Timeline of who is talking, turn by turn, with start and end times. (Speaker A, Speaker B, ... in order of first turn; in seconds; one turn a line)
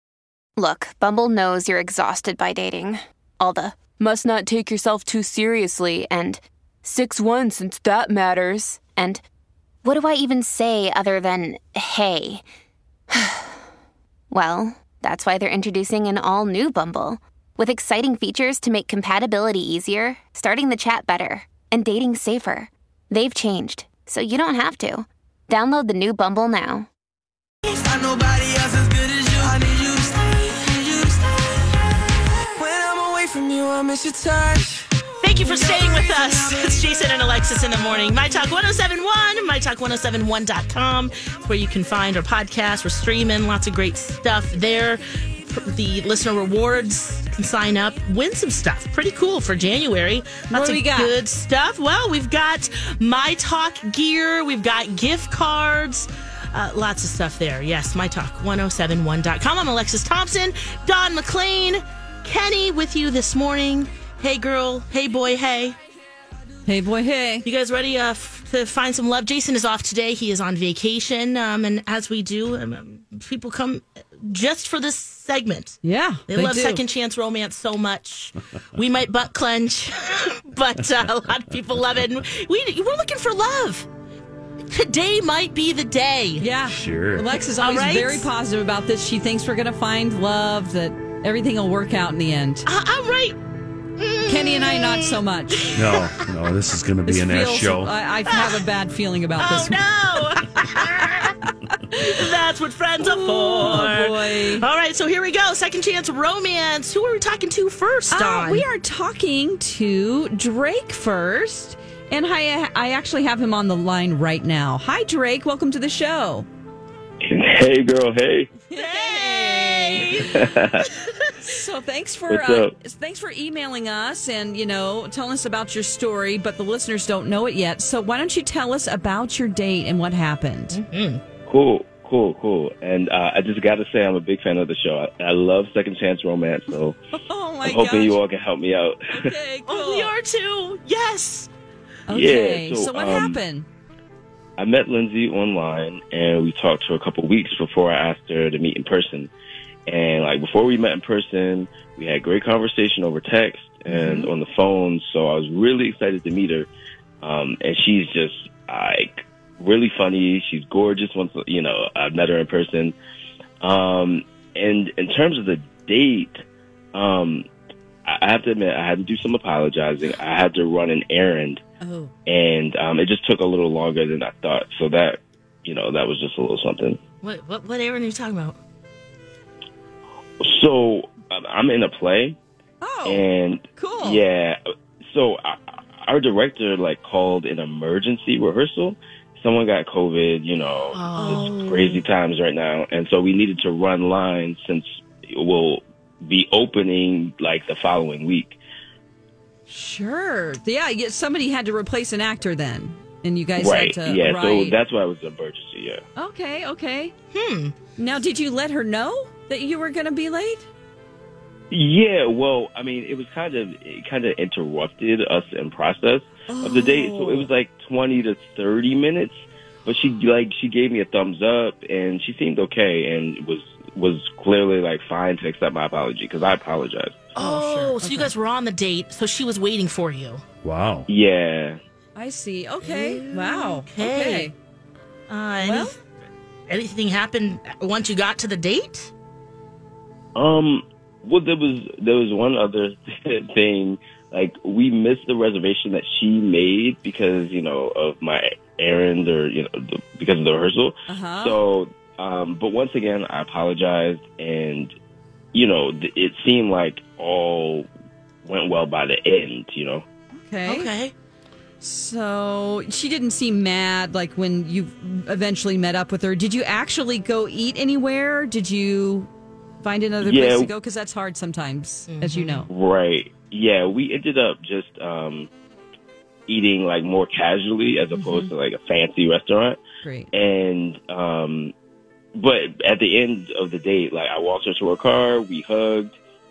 Speaker A: 0.6-9.2
Speaker A: 9.8-12.4
Speaker A: 13.1-13.6
Speaker A: 14.3-26.9
Speaker B: 27.7-31.8
Speaker B: 32.6-36.8
Speaker C: 35.2-65.8
Speaker D: 50.5-51.1
Speaker D: 66.7-67.5
Speaker C: 67.4-83.9
Speaker D: 75.8-76.8
Speaker C: 84.7-86.5
Speaker D: 86.4-92.7
Speaker E: 86.7-87.4
Speaker C: 87.6-88.3
Speaker C: 92.7-93.4
Speaker C: 94.0-96.3
Speaker D: 94.3-95.8
Speaker E: 95.8-97.9
Speaker D: 97.1-99.8
Speaker C: 98.3-98.7
Speaker C: 99.4-101.3
Speaker D: 100.6-102.2
Speaker C: 102.0-108.7
Speaker D: 103.0-104.6
Speaker D: 108.1-116.5
Speaker F: 117.2-118.5
Speaker D: 118.7-120.5
Speaker C: 118.8-120.4
Speaker F: 120.3-120.9
Speaker C: 121.0-121.3
Speaker D: 121.4-130.8
Speaker F: 122.3-122.7
Speaker C: 130.7-131.2
Speaker F: 131.5-137.0
Speaker D: 137.1-138.2
Speaker F: 137.6-139.3
Speaker D: 139.1-140.1
Speaker C: 139.7-141.5
Speaker D: 142.1-143.7
Speaker F: 142.1-143.4
Speaker F: 144.6-149.3
Speaker F: 149.9-156.7
Speaker D: 153.9-154.3
Speaker F: 157.2-162.9
Speaker F: 163.6-166.4
Speaker F: 166.9-167.5
Speaker F: 168.1-171.6
Speaker D: 171.8-172.1
Speaker F: 172.3-177.0
Speaker C: 177.2-178.6
Speaker F: 180.4-182.4
Speaker D: 182.8-184.2
Speaker F: 183.1-198.6
Speaker C: 190.9-192.0
Speaker D: 191.2-191.9
Speaker D: 199.7-204.8
Speaker F: 203.6-206.0
Speaker D: 206.2-207.1
Speaker C: 207.3-207.7
Speaker D: 208.0-210.7
Speaker F: 211.7-227.2
Speaker D: 216.5-217.5
Speaker C: 227.3-230.4
Speaker D: 227.4-228.3
Speaker E: 230.6-231.1
Speaker F: 231.1-231.8
Speaker D: 232.2-234.5
Speaker C: 232.8-234.5
Speaker C: 235.3-236.0
Speaker D: 235.6-235.9
Speaker C: 236.7-239.1
Speaker F: 240.3-254.9
Speaker D: 251.1-251.6
Speaker F: 255.5-257.9
Speaker F: 258.4-260.1
Speaker D: 260.4-260.9
Speaker C: 260.7-261.1
Speaker D: 261.8-269.3
Speaker D: 269.8-272.7
Speaker F: 270.2-270.7
Speaker C: 272.1-272.6
Speaker F: 272.7-275.5
Speaker F: 276.5-279.8
Speaker D: 278.1-278.5
Speaker D: 280.0-280.3
Speaker F: 280.3-281.7
Speaker F: 282.4-286.1